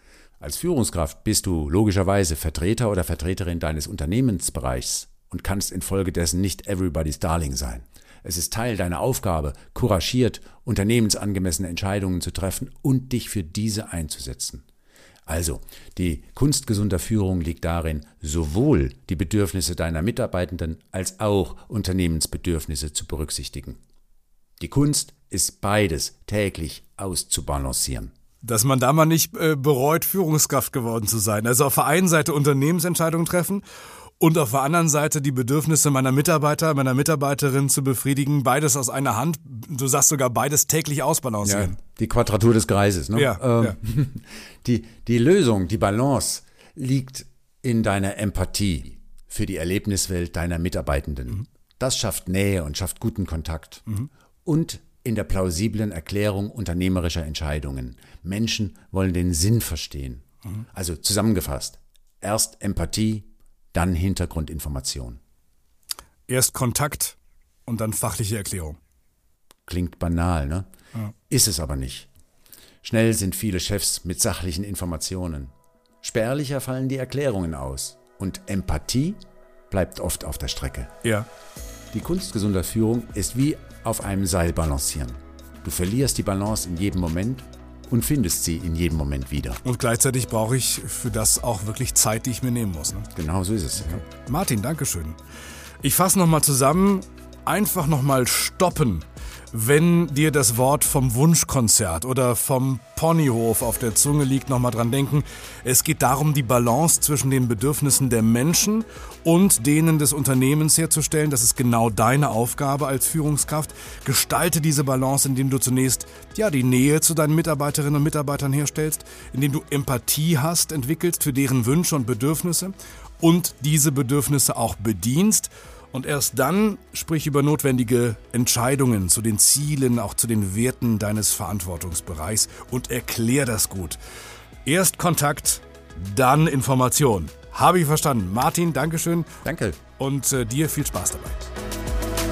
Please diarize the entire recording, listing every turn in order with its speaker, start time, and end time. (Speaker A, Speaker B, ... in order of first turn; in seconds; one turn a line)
Speaker A: 0.4-14.7
Speaker A: 15.3-23.8
Speaker A: 24.6-28.1
Speaker B: 28.4-33.6
Speaker B: 34.2-41.8
Speaker A: 41.4-53.9
Speaker B: 43.1-43.8
Speaker A: 54.5-65.2
Speaker B: 66.3-68.8
Speaker A: 69.7-70.7
Speaker A: 71.3-72.1
Speaker A: 72.8-79.2
Speaker A: 79.7-80.9
Speaker A: 81.9-89.6
Speaker B: 89.6-93.1
Speaker A: 93.1-94.0
Speaker B: 93.8-95.2
Speaker B: 95.8-134.0
Speaker B: 134.7-139.3
Speaker A: 139.4-139.8
Speaker B: 140.0-141.5